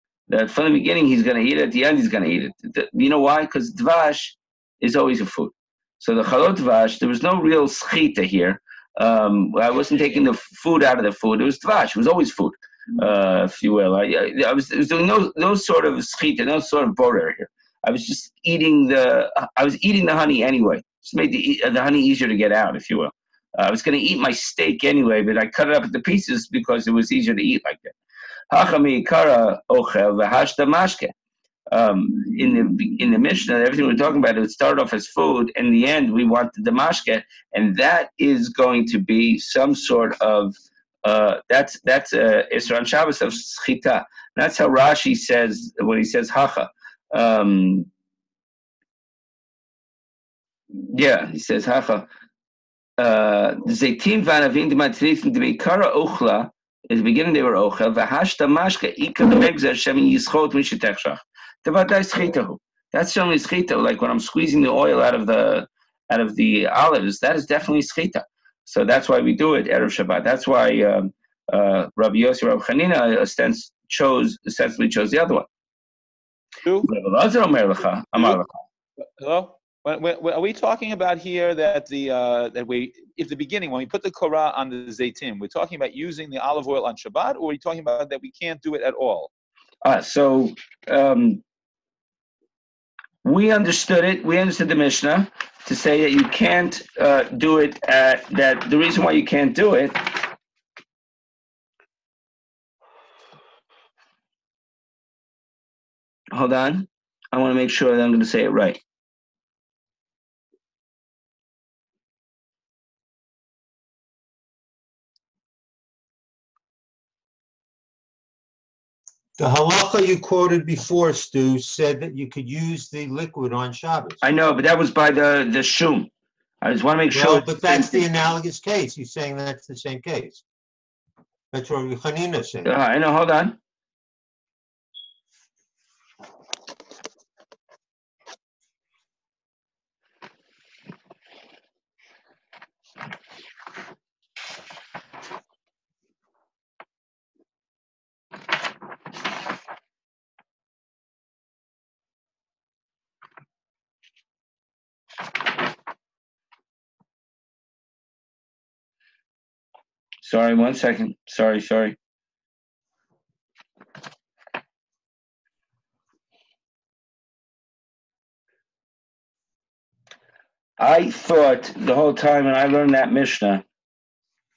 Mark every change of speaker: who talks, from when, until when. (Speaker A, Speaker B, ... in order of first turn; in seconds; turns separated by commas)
Speaker A: 0.3-27.9, Speaker A: 28.5-31.1, Speaker A: 31.7-47.9, Speaker A: 50.8-52.1, Speaker A: 53.0-75.5, Speaker B: 76.6-76.9, Speaker A: 76.9-78.5, Speaker B: 79.2-89.3, Speaker A: 89.8-91.4, Speaker A: 93.2-100.3, Speaker A: 106.3-108.8, Speaker C: 119.4-124.2, Speaker A: 124.2-126.1, Speaker A: 126.6-128.1, Speaker C: 127.1-130.4, Speaker C: 131.5-132.7, Speaker A: 132.7-133.6, Speaker A: 160.2-162.0, Speaker A: 170.8-173.6